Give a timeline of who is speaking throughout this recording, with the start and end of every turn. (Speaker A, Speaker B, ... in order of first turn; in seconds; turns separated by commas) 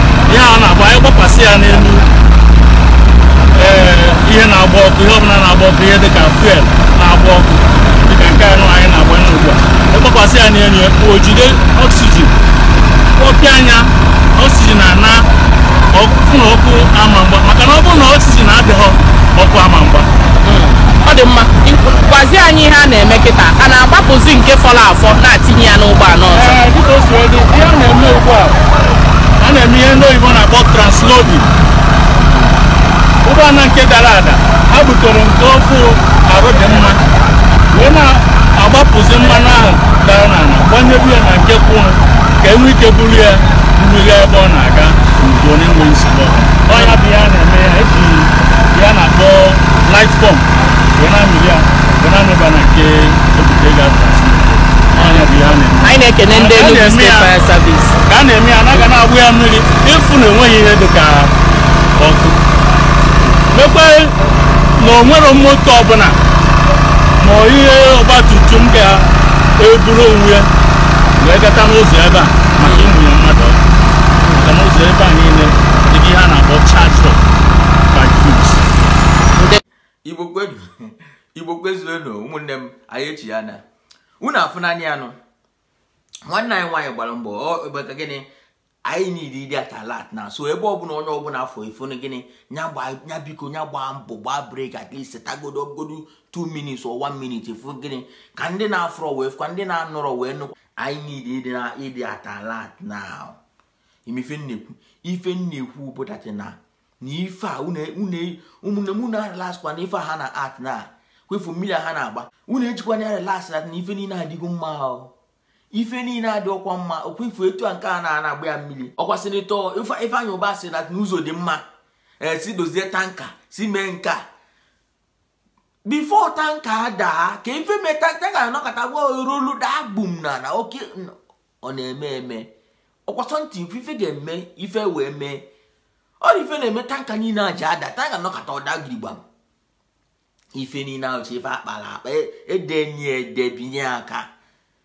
Speaker A: 0.3-2.1, Speaker A: 3.5-12.3, Speaker A: 13.2-15.3, Speaker A: 15.9-20.1, Speaker B: 20.4-26.6, Speaker A: 26.3-28.6, Speaker A: 29.4-31.5, Speaker A: 33.2-37.0, Speaker A: 37.7-57.4, Speaker B: 55.0-55.2, Speaker B: 55.8-58.0, Speaker A: 58.1-61.3, Speaker A: 62.0-62.4, Speaker A: 63.5-64.1, Speaker A: 64.8-66.2, Speaker A: 67.2-70.5, Speaker A: 71.2-73.6, Speaker B: 74.2-74.5, Speaker A: 74.4-77.2, Speaker A: 77.9-78.7, Speaker B: 79.3-79.6, Speaker C: 80.0-83.6, Speaker C: 84.2-85.2, Speaker C: 86.3-88.3, Speaker C: 88.8-103.4, Speaker C: 104.1-115.1, Speaker C: 115.7-121.6, Speaker C: 122.2-124.2, Speaker C: 125.8-132.5, Speaker C: 133.1-135.4, Speaker C: 136.2-139.2, Speaker C: 140.6-144.3